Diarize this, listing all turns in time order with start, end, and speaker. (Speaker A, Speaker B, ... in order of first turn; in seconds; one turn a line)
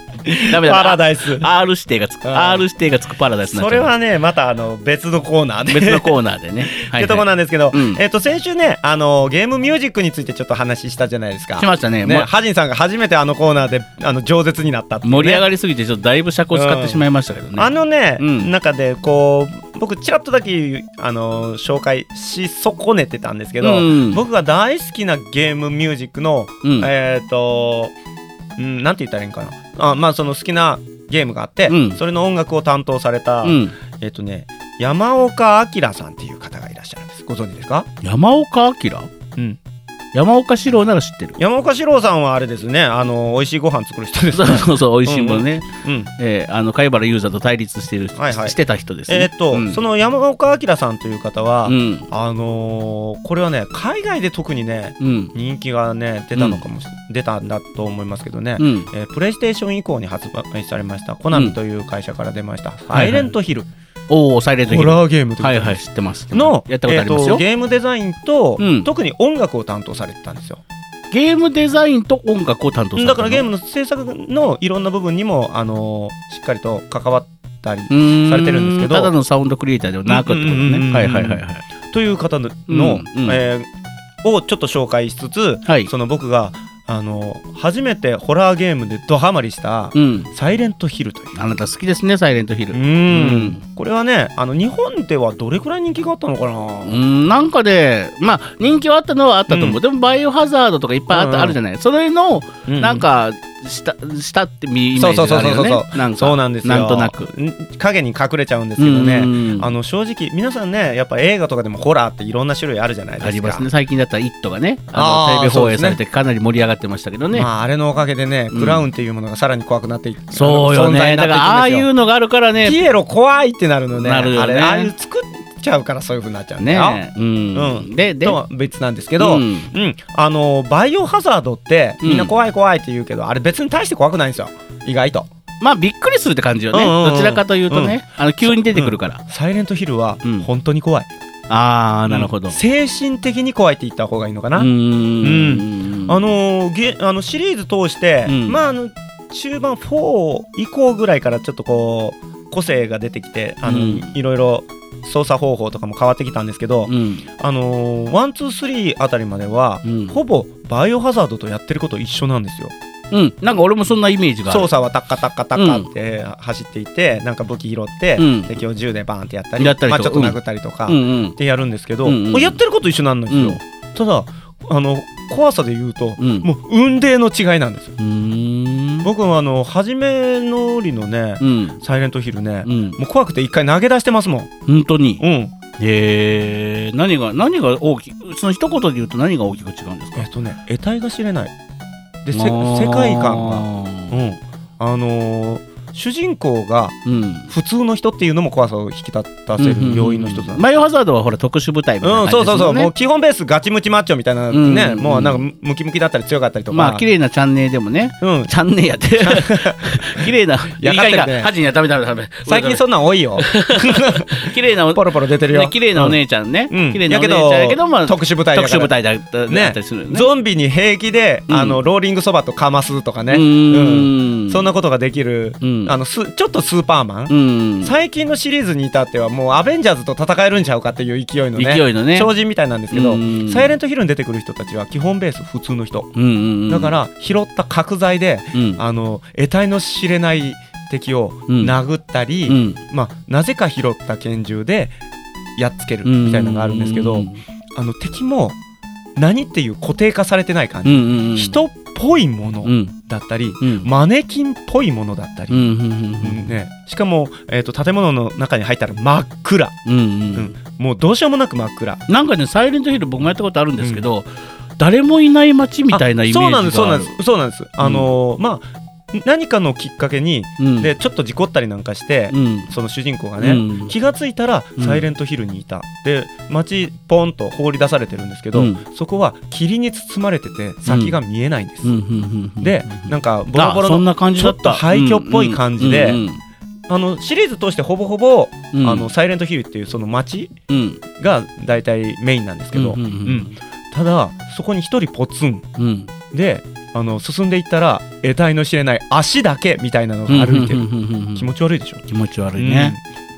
Speaker A: 0.2-1.5
Speaker B: 0.5-3.9
Speaker A: 2.2-2.6
Speaker A: 3.5-6.2
Speaker B: 5.7-8.0
Speaker A: 6.7-15.5
Speaker B: 11.6-12.3
Speaker B: 15.0-18.5
Speaker A: 16.5-17.0
Speaker A: 17.6-27.9
Speaker B: 23.6-24.2
Speaker B: 26.6-26.9
Speaker A: 28.6-37.9
Speaker B: 31.7-32.0
Speaker B: 33.4-33.8
Speaker B: 38.0-39.1
Speaker B: 40.1-41.4
Speaker A: 41.4-46.1
Speaker B: 44.3-45.7
Speaker B: 46.2-49.8
Speaker A: 48.2-48.6
Speaker A: 49.1-63.7
Speaker B: 51.7-52.1
Speaker B: 55.0-55.3
Speaker B: 56.4-56.6
Speaker B: 58.6-58.9
Speaker B: 62.9-63.3
Speaker B: 64.1-67.4
Speaker A: 64.7-70.6
Speaker B: 68.6-68.9
Speaker B: 71.1-73.5
Speaker A: 73.0-79.1
Speaker B: 77.9-81.7
Speaker A: 80.1-83.7
Speaker B: 82.7-83.4
Speaker A: 84.2-91.4
Speaker B: 89.9-90.3
Speaker B: 91.3-93.6
Speaker A: 92.7-97.0
Speaker B: 96.8-107.3
Speaker A: 99.5-99.8
Speaker A: 101.1-101.6
Speaker A: 102.7-103.0
Speaker A: 105.0-113.7
Speaker B: 108.8-109.7
Speaker B: 113.2-117.5
Speaker A: 114.9-116.0
Speaker A: 117.3-121.9
Speaker B: 118.5-118.8
Speaker B: 120.3-122.8
Speaker A: 122.6-127.0
Speaker B: 124.0-124.9
Speaker B: 126.6-128.4
Speaker A: 127.5-135.3
Speaker B: 129.2-129.7
Speaker B: 132.0-132.3
Speaker B: 135.6-139.2
Speaker A: 136.7-141.1
Speaker B: 141.5-142.6
Speaker A: 142.1-144.7
Speaker B: 144.6-146.3
Speaker A: 145.2-162.8
Speaker B: 148.3-148.6
Speaker B: 153.7-154.1
Speaker B: 156.9-157.3
Speaker B: 159.8-160.2
Speaker B: 163.1-164.7
Speaker A: 164.5-177.9
Speaker B: 165.6-165.9
Speaker B: 168.2-168.6
Speaker B: 169.6-171.4
Speaker B: 172.1-172.6
Speaker B: 173.3-173.6
Speaker B: 176.2-176.5
Speaker B: 178.0-179.1
Speaker A: 179.0-184.5
Speaker B: 181.4-181.8
Speaker B: 182.7-183.0
Speaker B: 184.7-185.2
Speaker A: 185.2-185.5
Speaker B: 185.8-190.3
Speaker A: 190.2-191.5
Speaker A: 192.2-197.0
Speaker B: 192.3-194.2
Speaker B: 197.1-197.5
Speaker A: 197.5-200.6
Speaker B: 199.6-202.9
Speaker A: 202.0-207.0
Speaker B: 204.5-205.4
Speaker B: 206.7-212.8
Speaker A: 208.2-208.5
Speaker A: 209.2-211.5
Speaker A: 212.5-216.2
Speaker B: 213.4-220.3
Speaker A: 216.7-218.9
Speaker A: 219.5-236.1
Speaker B: 221.5-221.8
Speaker B: 223.3-224.7
Speaker B: 225.6-225.9
Speaker B: 227.3-227.9
Speaker B: 231.6-232.3
Speaker B: 232.9-233.7
Speaker B: 236.2-236.9
Speaker A: 236.7-245.0
Speaker B: 238.5-238.8
Speaker B: 241.5-241.8
Speaker B: 242.5-242.8
Speaker A: 245.6-248.6
Speaker B: 246.0-247.4
Speaker A: 249.2-259.8
Speaker B: 250.8-251.6
Speaker B: 252.6-252.9
Speaker B: 253.6-253.9
Speaker B: 255.5-256.5
Speaker B: 259.9-260.6
Speaker A: 260.4-262.0
Speaker B: 262.1-267.2
Speaker A: 263.8-264.1
Speaker A: 265.9-281.9
Speaker B: 267.8-268.1
Speaker B: 270.6-270.9
Speaker B: 272.3-272.7
Speaker B: 273.4-273.9
Speaker B: 274.8-275.0
Speaker B: 278.5-278.8
Speaker B: 280.9-281.2
Speaker B: 281.8-286.4
Speaker A: 282.6-286.2
Speaker A: 286.9-290.5
Speaker B: 288.7-289.1
Speaker B: 290.7-291.0
Speaker A: 291.2-295.7
Speaker B: 292.7-293.6
Speaker B: 295.8-296.1
Speaker A: 296.3-302.0
Speaker B: 300.3-301.5
Speaker B: 302.1-302.9
Speaker A: 302.6-303.0